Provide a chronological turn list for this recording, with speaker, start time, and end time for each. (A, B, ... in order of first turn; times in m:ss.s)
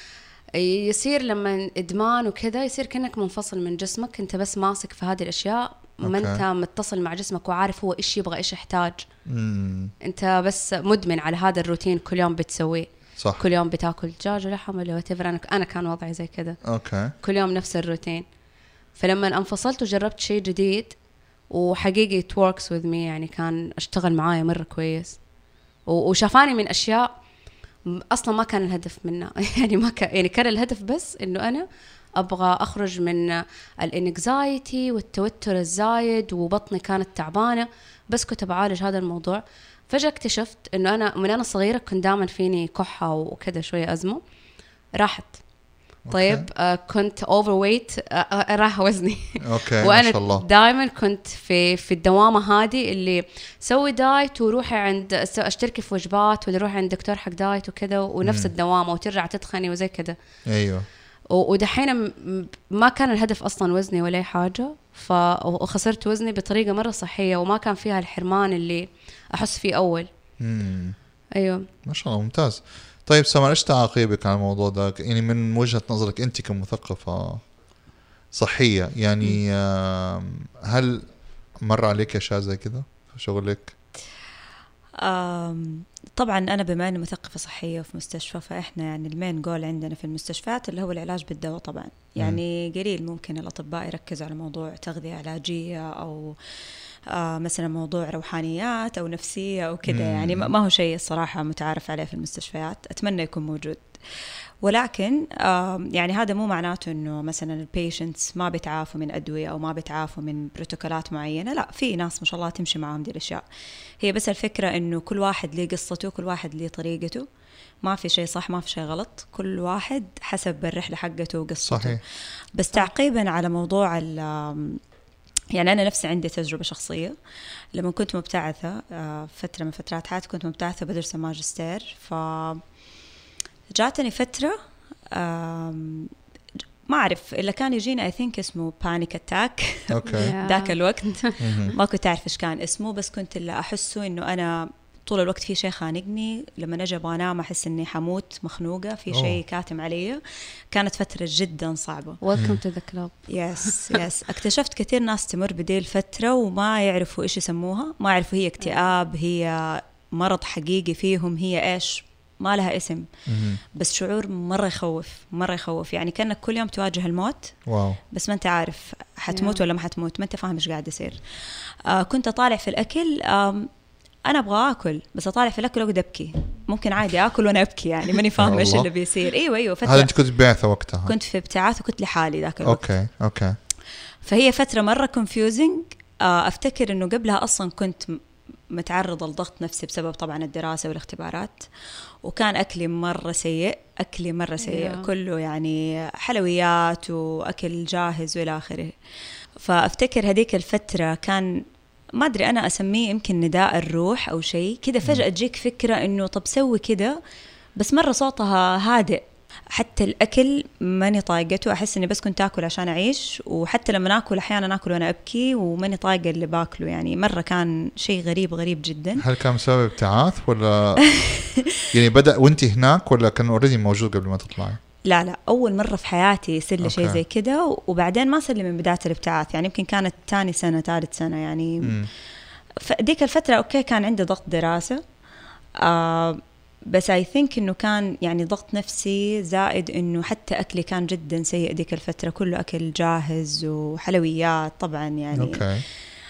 0:00.5-0:09.0 A
0:06.0-0:06.4 B
0:09.2-0:09.9 B
0:10.0-0:16.6 A
0:13.2-0:13.4 B
0:16.6-0:17.1 B
0:17.2-0:18.2 A
0:19.0-0:21.0 A
0:21.5-0:25.2 A
0:25.9-0:27.1 A
0:27.9-0:31.6 A
0:32.2-0:44.2 A
0:44.9-0:45.4 A
0:46.1-0:46.4 B
0:46.1-1:00.2 A
0:49.4-0:50.4 B
0:58.2-0:58.5 B
1:00.5-1:00.9 B
1:01.3-1:10.1 A
1:10.4-1:11.0 B
1:11.4-1:11.6 A
1:11.8-1:17.4 B
1:18.3-1:21.1 B
1:21.6-1:23.7 B
1:25.0-1:36.4 C
1:37.1-1:44.0 C
1:39.9-1:40.5 B
1:44.6-1:53.4 C
1:54.0-1:57.3 C
1:57.8-2:02.0 C
2:01.6-2:02.0 B
2:02.5-2:04.8 C
2:05.5-2:07.2 C
2:07.7-2:12.6 C
2:13.7-2:14.6 C
2:15.1-2:16.1 C
2:16.9-2:32.2 C
2:19.9-2:20.3 B
2:20.1-2:21.3 A
2:21.4-2:21.8 B
2:29.1-2:29.4 B
2:32.2-2:34.0 A
2:32.3-2:32.6 B
2:33.3-2:43.1 C
2:43.3-2:43.6 B
2:43.7-2:47.6 C
2:47.7-2:48.0 B
2:48.1-2:53.7 C
2:49.3-2:49.6 A
2:54.3-3:00.1 C
2:58.4-2:58.9 B
2:59.8-3:01.1 B
3:01.0-3:02.8 C
3:02.6-3:03.6 B
3:04.2-3:11.7 C
3:12.2-3:19.0 C
3:14.6-3:15.1 A
3:19.6-3:21.6 C
3:22.2-3:27.2 C
3:27.8-3:39.2 C
3:39.2-3:41.2 B
3:41.1-3:41.8 C
3:41.8-3:44.8 B
3:45.0-3:52.0 C
3:46.8-3:47.2 B
3:51.8-3:52.1 B
3:52.8-3:55.0 C
3:55.8-4:05.6 C
4:05.3-4:05.8 B